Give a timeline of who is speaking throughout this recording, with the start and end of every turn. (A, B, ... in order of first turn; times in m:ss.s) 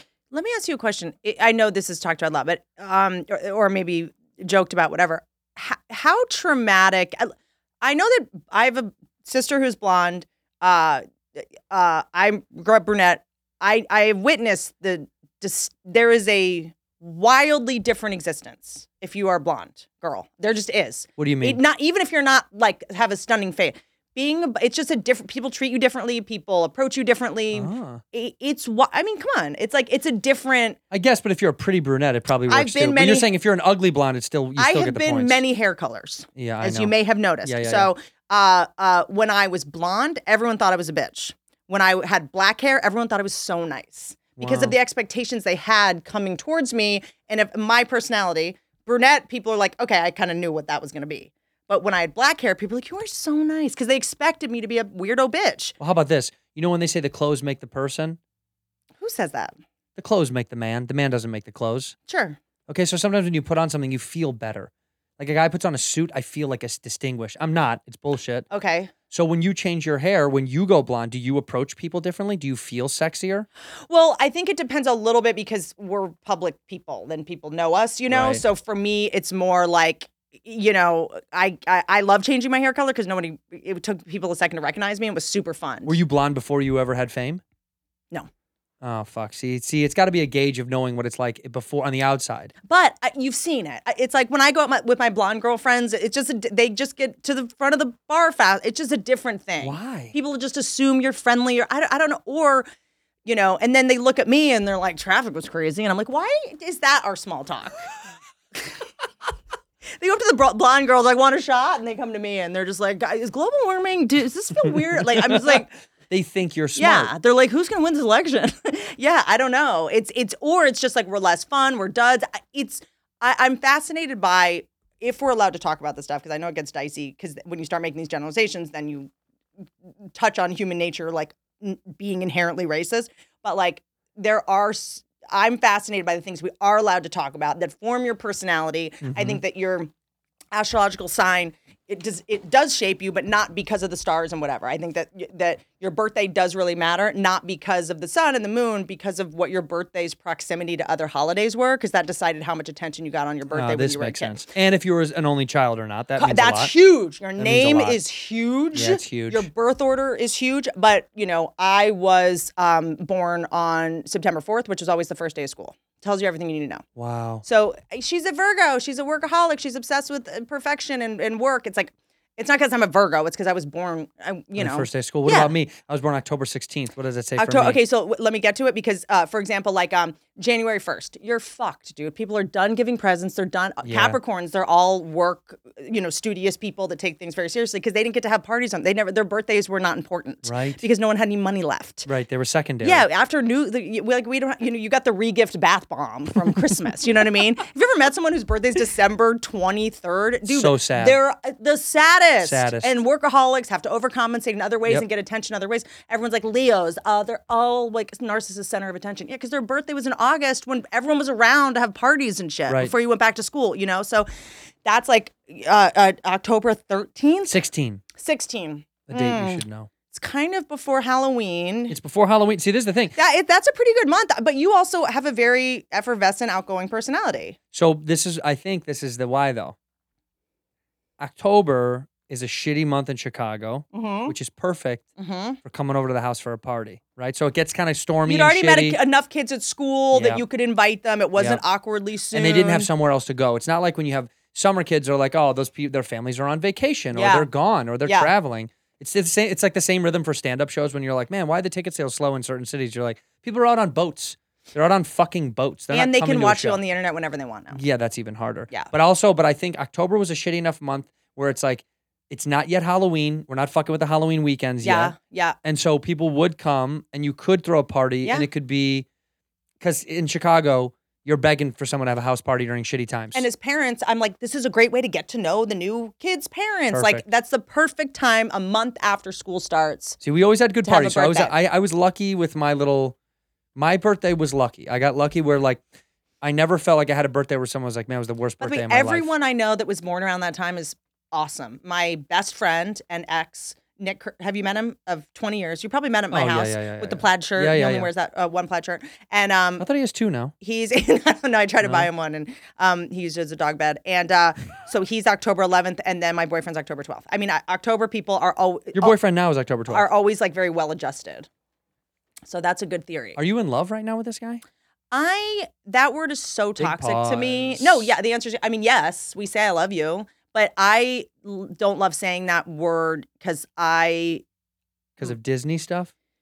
0:00.3-0:30.8 A
0:21.2-0:21.6 B
0:27.5-0:28.0 B
0:30.9-0:35.4 B
0:32.5-0:33.3 A
0:34.6-0:55.7 A
0:36.4-0:37.9 B
0:44.4-0:44.8 B
0:55.8-0:58.2 B
0:59.0-0:59.6 A
1:00.0-1:01.9 B
1:02.1-1:02.4 A
1:02.7-1:08.4 B
1:08.5-1:08.9 A
1:09.1-1:13.5 B
1:13.9-1:26.0 A
1:18.1-1:18.4 B
1:25.8-1:27.4 B
1:28.8-1:32.5 B
1:32.6-1:42.7 A
1:39.6-1:40.1 B
1:43.2-1:47.8 A
1:49.9-1:55.7 A
1:55.1-1:57.1 B
1:56.8-2:09.1 A
2:10.1-2:19.9 A
2:19.0-2:19.4 B
2:20.5-2:34.4 A
2:33.5-2:36.7 B
2:36.2-2:46.8 A
2:37.4-2:38.0 B
2:38.7-2:39.5 B
2:47.0-2:47.4 B
2:47.4-2:55.5 A
2:54.6-2:57.8 B
2:57.4-3:12.1 A
3:03.8-3:04.2 B
3:10.4-3:10.8 B
3:12.0-3:13.0 B
3:12.8-3:34.3 A
3:20.5-3:21.2 B
3:22.4-3:22.9 B
3:32.7-3:32.9 B
3:34.8-3:37.6 A
3:37.5-3:38.0 B
3:38.1-3:42.0 A
3:39.1-3:39.9 B
3:41.9-3:43.2 B
3:43.2-3:47.6 A
3:47.7-3:49.8 B
3:51.2-3:55.1 B
3:53.9-3:54.3 A
3:55.2-3:55.6 A
3:55.6-3:59.0 B
3:58.2-4:02.9 A
4:00.1-4:00.4 B
4:02.3-4:16.8 B
4:07.1-4:07.5 A
4:08.0-4:08.3 A
4:15.9-4:17.8 A
4:17.7-4:29.0 B
4:24.8-4:25.6 A
4:29.8-4:33.5 B
4:33.3-4:40.2 A
4:36.9-4:37.2 B
4:40.2-4:43.2 B
4:40.8-4:41.5 A
4:43.7-4:45.8 B
4:46.4-4:49.3 B
4:48.6-4:59.9 A
4:56.3-4:58.1 B
4:59.8-5:00.5 B
5:00.6-5:09.2 A
5:01.8-5:02.1 B
5:08.9-5:10.0 B
5:09.9-5:11.5 A
5:12.4-5:13.4 A
5:13.4-5:14.6 B
5:15.1-5:24.4 A
5:16.8-5:18.1 B
5:25.2-5:26.1 B